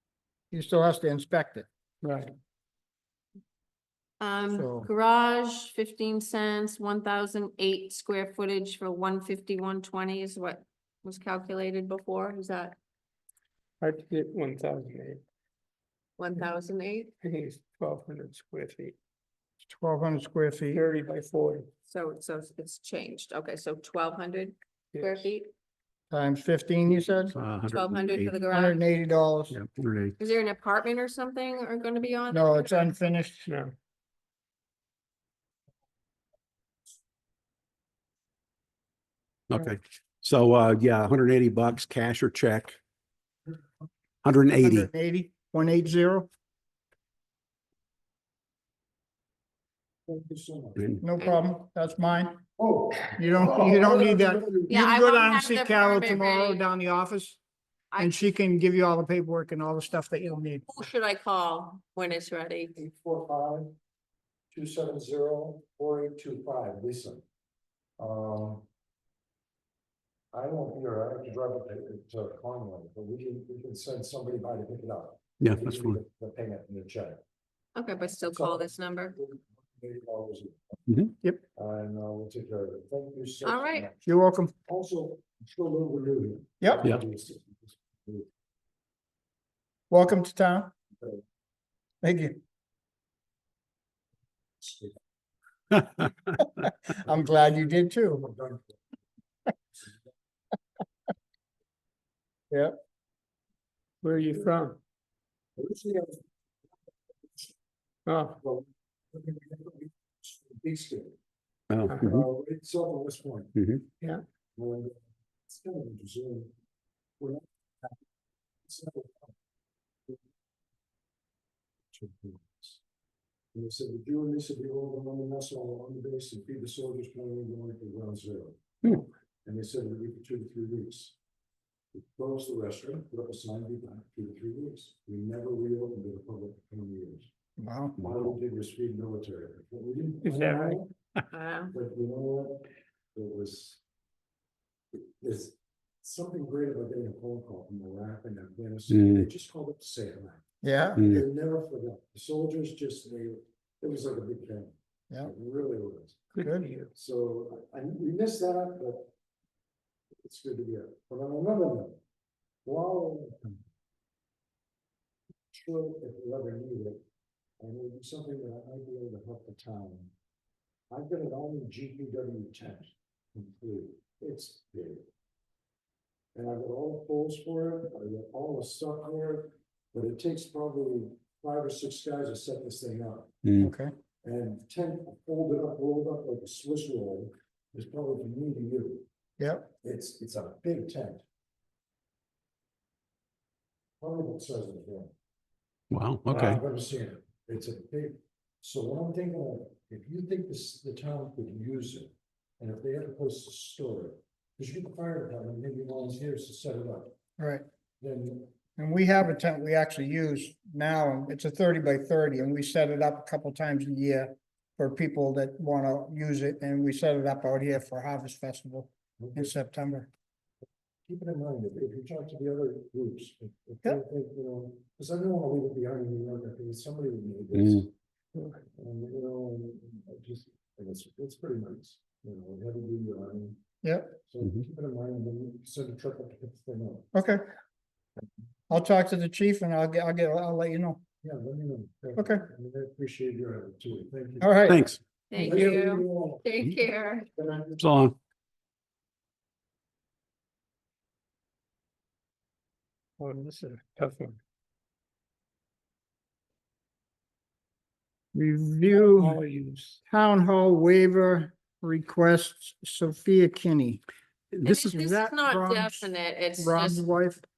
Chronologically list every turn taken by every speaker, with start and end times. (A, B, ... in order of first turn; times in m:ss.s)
0:00.5-0:01.7 A
0:02.0-0:02.3 B
0:04.2-0:12.8 C
0:04.5-0:04.9 A
0:13.8-0:15.2 B
0:16.2-0:17.1 C
0:17.2-0:19.0 B
0:19.7-0:20.8 A
0:20.7-0:21.7 B
0:21.9-0:25.5 C
0:26.1-0:27.4 A
0:27.3-0:28.4 D
0:27.7-0:28.8 C
0:28.4-0:29.6 A
0:29.5-0:30.2 D
0:30.2-0:32.9 C
0:32.3-0:33.5 A
0:33.5-0:33.7 B
0:39.5-0:42.8 D
0:44.2-0:44.9 D
0:44.6-0:46.3 A
0:50.1-0:50.9 E
0:51.0-0:52.4 A
0:52.6-0:54.7 E
0:53.2-0:57.4 A
0:54.7-0:56.6 C
0:57.9-0:58.2 C
0:58.0-1:00.6 A
1:00.7-1:02.8 C
1:02.8-1:03.8 E
1:04.5-1:07.2 E
1:08.0-1:08.6 E
1:10.3-1:17.2 E
1:15.4-1:16.0 D
1:17.8-1:19.2 C
1:18.3-1:20.8 E
1:20.9-1:21.1 D
1:21.6-1:24.1 E
1:23.4-1:23.9 C
1:24.1-1:24.5 A
1:24.6-1:28.3 E
1:26.6-1:26.9 A
1:29.9-1:30.7 A
1:32.0-1:32.4 A
1:34.6-1:34.9 E
1:36.6-1:38.3 A
1:38.0-1:38.7 E
1:44.0-1:44.8 B
1:45.6-1:46.2 E
1:48.1-1:48.4 B
1:48.4-1:51.2 E
1:51.7-1:52.3 D
1:51.9-1:52.1 B
1:51.9-1:53.6 E
1:53.6-1:53.8 D
1:54.6-1:56.5 E
1:57.2-1:58.0 E
1:58.6-1:59.3 E
2:01.9-2:02.8 E
2:03.5-2:11.2 E
2:11.9-2:17.3 E
2:17.6-2:18.0 A
2:18.0-2:20.9 E
2:18.0-2:18.3 D
2:20.2-2:20.8 B
2:21.3-2:21.7 C
2:21.7-2:23.8 E
2:24.9-2:30.4 E
2:28.9-2:29.3 D
2:30.6-2:31.2 A
2:31.0-2:31.2 D
2:31.0-2:36.2 E
2:36.3-2:36.9 B
2:36.4-2:36.7 A
2:36.9-2:39.1 E
2:40.2-2:42.0 E
2:42.6-2:43.6 E
2:45.5-2:47.0 E
2:47.6-2:50.1 E
2:50.9-2:55.1 E
2:56.4-3:03.4 E
3:03.4-3:03.7 D
3:03.6-3:03.9 A
3:04.2-3:09.0 E
3:09.4-3:09.7 A
3:09.8-3:11.2 E
3:14.0-3:15.1 E
3:15.9-3:16.6 D
3:16.3-3:27.2 E
3:27.4-3:27.6 A
3:28.0-3:28.6 E
3:28.8-3:40.1 A
3:39.2-3:39.5 E
3:41.1-3:47.9 E
3:47.6-3:47.8 D
3:48.4-3:48.6 B
3:48.8-3:53.6 E
3:53.8-3:54.2 A
3:54.2-3:57.1 E
3:57.1-3:57.4 A
3:58.7-4:01.0 A
4:01.2-4:04.6 E
4:02.2-4:02.5 A
4:04.4-4:04.8 A
4:04.7-4:05.0 D
4:05.3-4:07.3 C
4:05.3-4:06.4 E
4:07.3-4:07.9 E
4:07.8-4:08.2 D
4:13.2-4:14.4 B
4:18.3-4:19.4 A
4:18.9-4:20.0 B
4:20.1-4:24.0 A
4:24.6-4:27.0 C
4:24.7-4:27.4 A